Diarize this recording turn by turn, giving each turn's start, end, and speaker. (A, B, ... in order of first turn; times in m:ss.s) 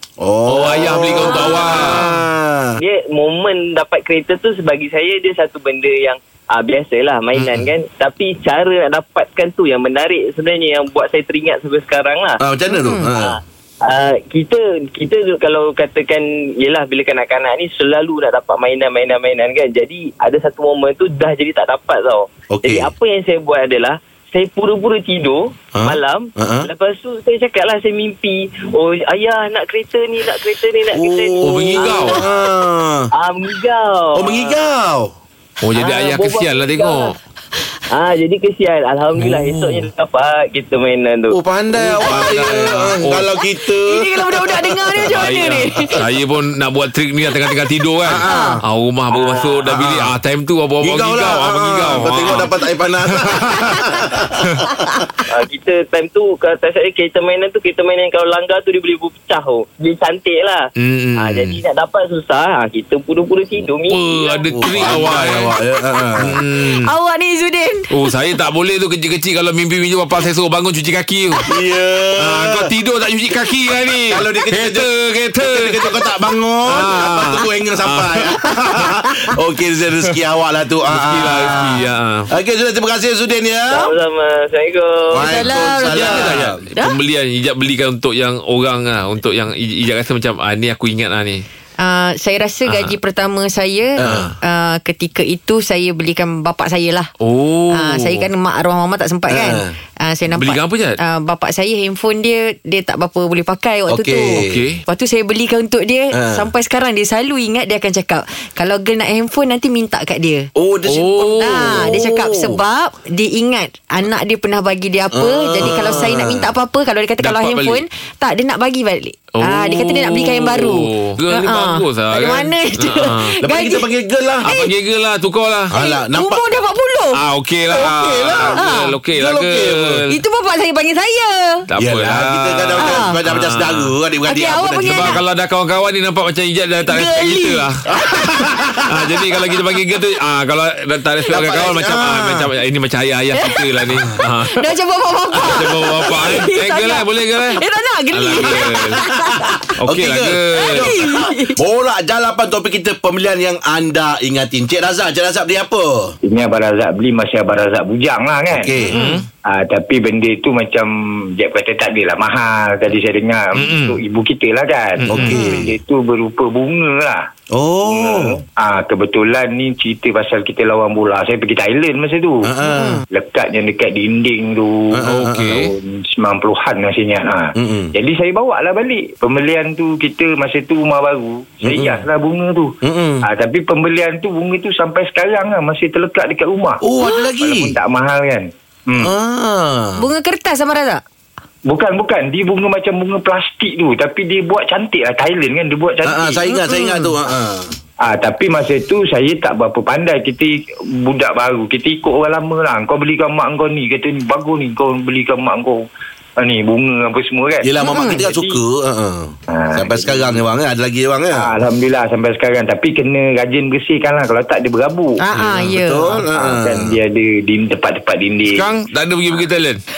0:00.2-0:02.8 A
0:00.5-0:02.1 B
0:02.8-0:12.4 C
0:07.4-0:07.6 B
0:12.4-0:13.4 A
0:12.7-0:13.1 D
0:13.0-0:32.2 C
0:22.5-0:22.8 A
0:25.7-0:26.7 A
0:31.0-0:33.1 A
0:31.4-0:32.2 B
0:33.1-0:34.6 C
0:34.1-0:35.1 A
0:35.6-0:37.2 B
0:35.8-0:37.1 C
0:37.9-0:41.4 C
0:39.2-0:39.9 B
0:41.3-0:45.2 A
0:41.8-0:43.3 B
0:43.8-0:46.0 D
0:45.0-0:52.5 B
0:48.0-0:48.6 A
0:48.2-0:48.6 D
0:49.1-0:49.6 C
0:49.6-0:50.1 A
0:50.8-0:55.0 A
0:55.3-1:05.0 C
1:00.8-1:01.6 B
1:03.9-1:05.5 B
1:04.5-1:06.4 A
1:06.2-1:06.9 B
1:06.6-1:08.1 D
1:07.9-1:11.4 B
1:11.5-1:12.7 A
1:12.2-1:15.8 B
1:14.1-1:14.9 A
1:15.4-1:23.8 A
1:16.7-1:18.3 B
1:20.9-1:22.3 B
1:23.8-1:25.2 C
1:25.1-1:26.6 A
1:25.2-1:27.0 D
1:25.8-1:31.4 B
1:31.8-1:37.1 D
1:32.6-1:33.0 B
1:34.0-1:34.3 A
1:37.2-1:38.3 B
1:37.7-1:50.5 D
1:39.3-1:39.7 A
1:40.3-1:41.0 B
1:43.9-1:44.6 A
1:44.4-1:44.8 B
1:46.1-1:46.4 A
1:50.5-1:52.6 A
1:50.8-1:51.8 B
1:51.4-2:03.9 D
1:55.1-1:56.5 A
1:57.2-1:57.8 B
1:59.3-2:03.4 B
2:03.4-2:04.5 A
2:04.4-2:05.7 B
2:05.7-2:06.6 A
2:05.8-2:07.2 D
2:07.1-2:10.1 B
2:07.7-2:10.0 A
2:08.5-2:09.0 D
2:10.1-2:11.7 D
2:11.7-2:13.9 B
2:11.8-2:15.2 A
2:12.8-2:13.2 D
2:14.2-2:15.2 D
2:14.9-2:17.9 B
2:16.8-2:18.3 D
2:17.9-2:18.8 A
2:18.9-2:24.6 B
2:21.3-2:22.5 A
2:23.3-2:23.7 D
2:24.5-2:29.7 D
2:25.4-2:29.0 B
2:29.0-2:36.2 A
2:29.8-2:30.9 B
2:30.6-2:31.6 D
2:36.2-2:38.7 E
2:38.5-2:39.2 A
2:38.9-2:39.2 D
2:38.9-2:39.2 B
2:39.4-2:47.3 E
2:43.5-2:44.0 B
2:45.0-2:45.4 B
2:45.1-2:45.7 A
2:45.3-2:45.6 D
2:47.5-2:48.4 A
2:47.8-2:52.5 E
2:52.4-2:53.0 A
2:52.6-2:53.0 D
2:53.1-2:55.0 E
2:54.9-2:55.7 A
2:55.0-2:55.7 B
2:55.5-3:06.8 E
2:57.5-2:57.9 A
3:01.6-3:02.0 A
3:02.8-3:03.2 A
3:06.8-3:07.8 A
3:07.4-3:09.1 E
3:09.0-3:10.1 A
3:10.0-3:11.0 D
3:11.7-3:16.5 E
3:16.0-3:17.7 A
3:16.5-3:17.1 D
3:18.0-3:25.8 E
3:26.4-3:28.6 E
3:27.6-3:31.6 A
3:27.8-3:28.2 D
3:29.5-3:30.4 E
3:31.3-3:35.2 E
3:35.2-3:36.1 D
3:35.5-3:37.0 A
3:36.3-3:38.6 E
3:38.5-3:39.8 B